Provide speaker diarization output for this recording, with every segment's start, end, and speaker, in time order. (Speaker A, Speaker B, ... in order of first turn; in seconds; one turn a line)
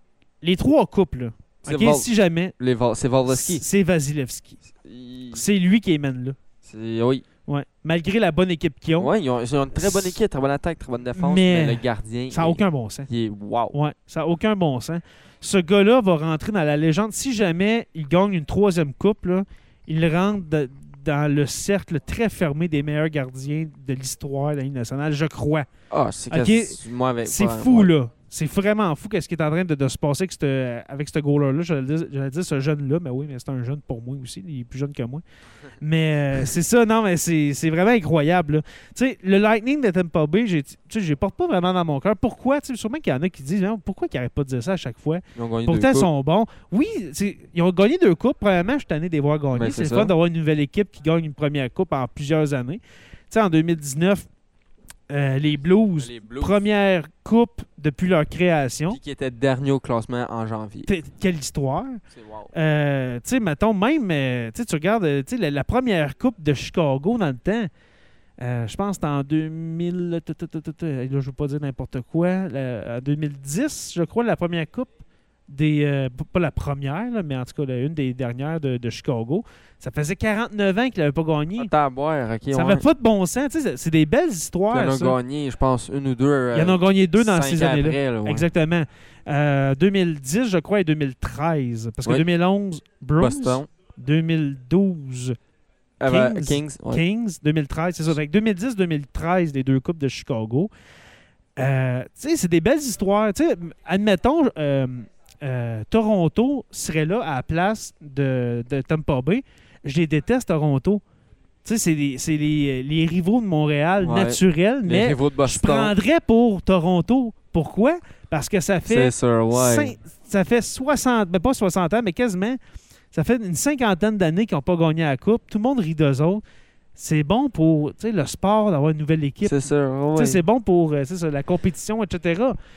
Speaker A: 0.4-2.5
Speaker B: 1.6-2.1
Speaker B: 2.6-3.6
Speaker A: 3.3-4.6
Speaker B: 4.8-5.4
Speaker A: 5.3-6.4
Speaker B: 6.6-7.2
Speaker A: 7.5-9.1
Speaker B: 9.0-13.8
Speaker A: 9.8-10.2
Speaker A: 11.2-13.1
Speaker A: 13.7-25.7
Speaker B: 25.9-27.9
Speaker A: 26.3-35.2
Speaker A: 35.8-54.3
Speaker B: 45.4-46.1
Speaker B: 49.5-50.1
Speaker A: 55.1-59.0
Speaker B: 56.0-56.6
Speaker B: 58.9-60.9
Speaker A: 60.9-62.0
Speaker B: 62.1-62.5
Speaker A: 62.5-67.7
Speaker A: 68.4-74.9
Speaker A: 75.5-81.7
Speaker B: 81.6-82.8
Speaker A: 82.5-85.2
Speaker B: 84.7-88.5
Speaker A: 86.5-95.3
Speaker B: 93.2-93.7
Speaker B: 96.0-97.0
Speaker A: 96.0-100.7
Speaker A: 101.6-111.0
Speaker A: 111.6-122.6
Speaker B: 114.0-115.9
Speaker B: 118.8-119.9
Speaker A: 123.1-126.4
Speaker A: 126.9-132.6
Speaker B: 129.4-130.4